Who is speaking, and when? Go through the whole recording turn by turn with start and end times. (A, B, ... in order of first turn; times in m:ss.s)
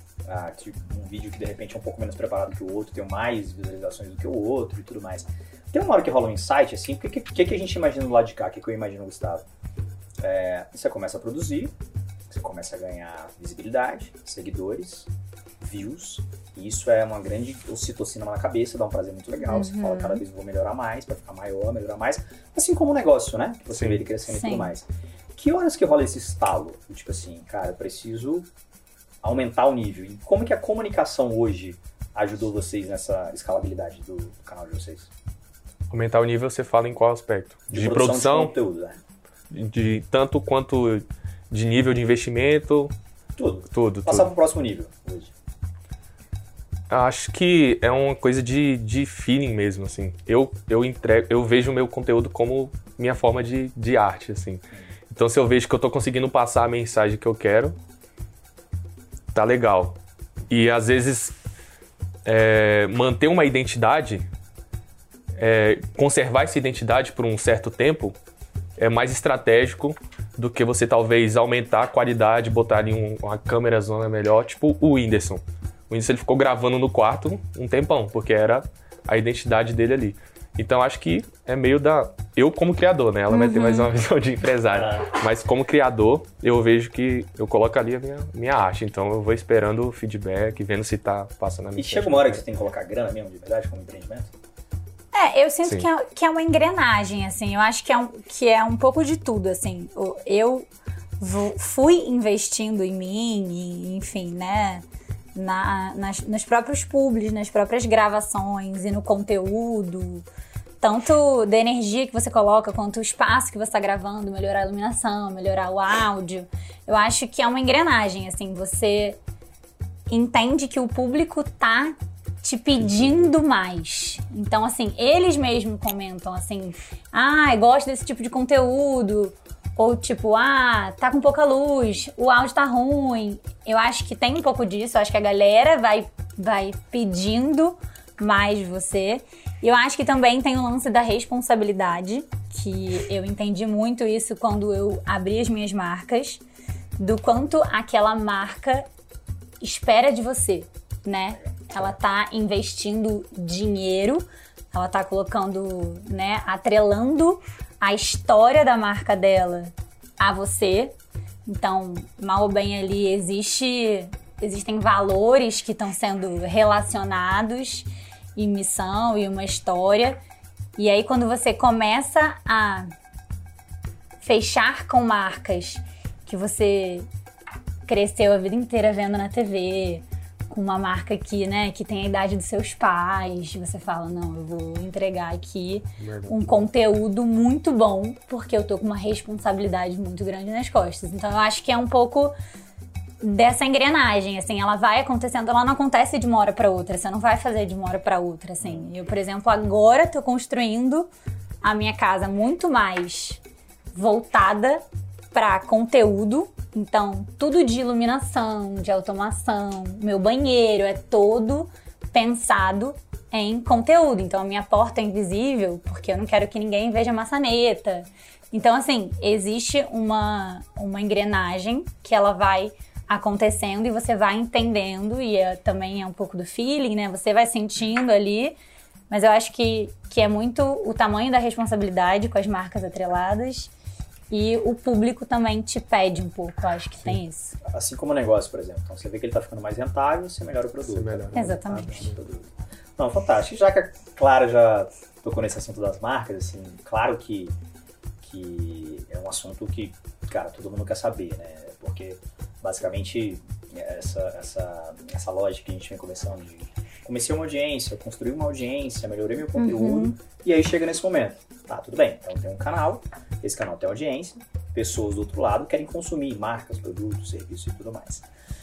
0:00.2-0:09.4 A
0:10.2-0:11.7 A
0:12.3-0:15.1 A
0:15.6-0:28.5 A
0:19.5-0:20.2 B
0:23.8-0:24.0 C
0:24.3-0:24.7 B
0:29.2-0:35.1 A
0:35.9-0:38.5 C
0:37.7-0:39.0 A
0:39.5-0:42.9 C
0:43.4-0:45.3 A
0:43.7-0:44.3 C
0:46.9-0:57.8 C
0:59.3-1:00.0 C
1:00.5-1:01.4 C
1:02.3-1:04.3 C
1:05.4-1:08.2 C
1:08.8-1:32.4 C
1:23.3-1:23.9 B
1:24.7-1:25.2 A
1:31.8-1:34.3 A
1:35.1-1:40.7 B
1:41.2-1:50.2 B
1:50.8-1:59.2 B
2:00.1-2:26.4 B
2:27.0-2:28.9 B
2:29.6-2:41.0 B
2:41.5-2:50.2 B
2:50.8-2:52.9 B
2:54.2-2:57.1 B
2:57.9-3:12.3 B
3:06.0-3:06.6 C
3:13.2-3:21.1 B
3:18.6-3:18.9 A
3:21.6-3:23.4 B
3:23.9-3:24.8 B
3:25.3-3:48.6 B
3:49.1-3:53.7 B
3:54.3-3:57.6 B
3:57.6-4:07.6 A
4:00.9-4:02.0 C
4:01.3-4:02.1 B
4:08.2-4:28.3 A
4:19.6-4:20.2 B